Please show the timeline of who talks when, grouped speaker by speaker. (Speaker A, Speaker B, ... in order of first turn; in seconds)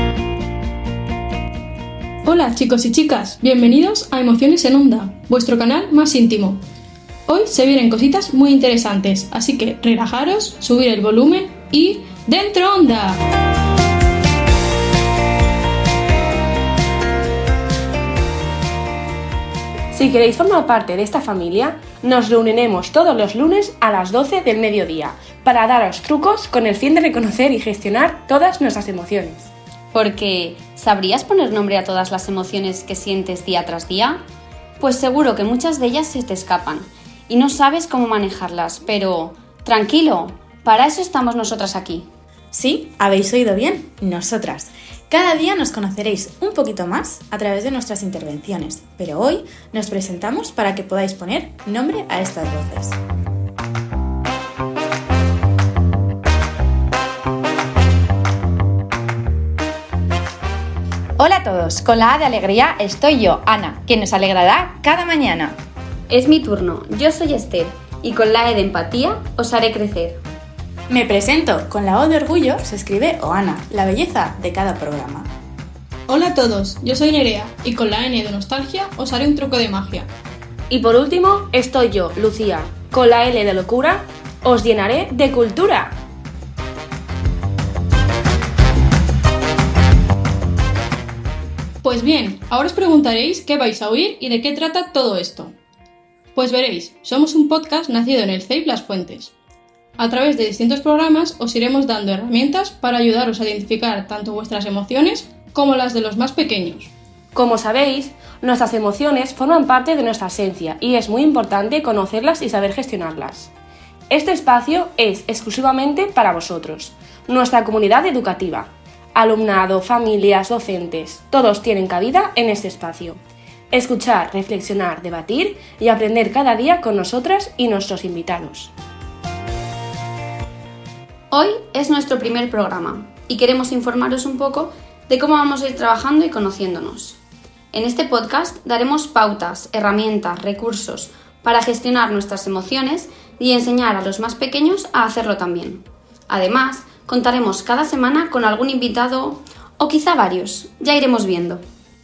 Speaker A: 2.2-6.6, 7.3-13.2, 76.1-80.1, 91.8-95.5, 96.3-99.3, 100.0-106.9
Speaker B: 19.9-29.5, 80.7-86.0, 107.3-113.5, 114.1-123.2, 123.7-128.7
Speaker C: 29.9-34.2, 34.8-42.0, 66.1-70.2, 131.3-137.2, 137.7-151.6
Speaker D: 42.5-53.0, 70.9-75.3
Speaker E: 61.2-65.5